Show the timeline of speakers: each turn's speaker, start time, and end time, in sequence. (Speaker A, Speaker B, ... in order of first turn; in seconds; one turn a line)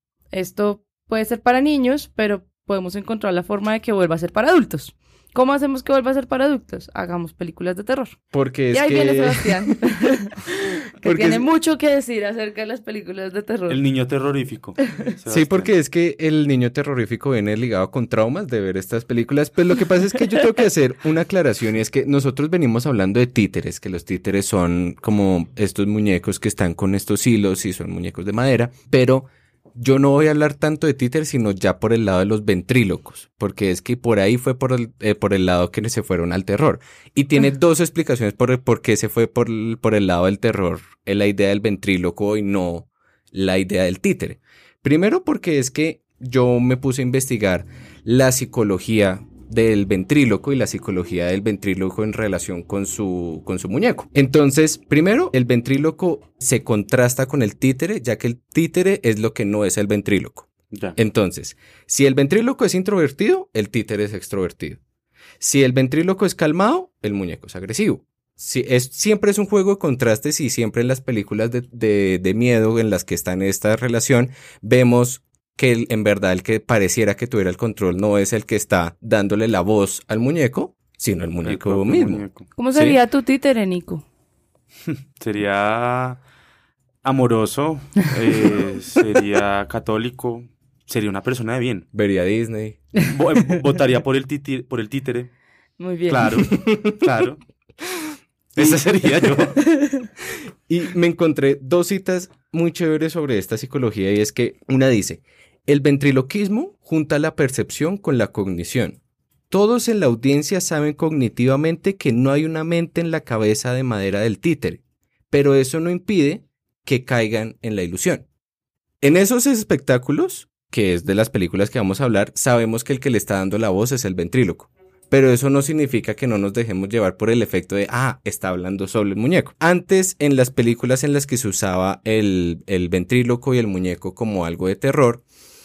Speaker A: 0.3-8.2
Speaker B: 8.3-9.8
Speaker A: 8.7-13.8
Speaker B: 11.0-11.5
Speaker C: 13.7-15.7
Speaker B: 15.3-64.8
Speaker C: 60.7-61.0
Speaker B: 65.4-82.2
Speaker C: 81.4-82.5
Speaker A: 82.6-84.0
Speaker C: 84.9-86.2
Speaker C: 87.0-91.9
Speaker B: 91.9-92.8
Speaker C: 93.1-95.3
Speaker A: 95.8-96.4
Speaker C: 96.1-97.4
Speaker B: 96.5-97.0
Speaker C: 98.5-99.6
Speaker A: 99.8-100.1
Speaker B: 100.7-109.0
Speaker B: 109.5-118.3
Speaker B: 119.0-135.2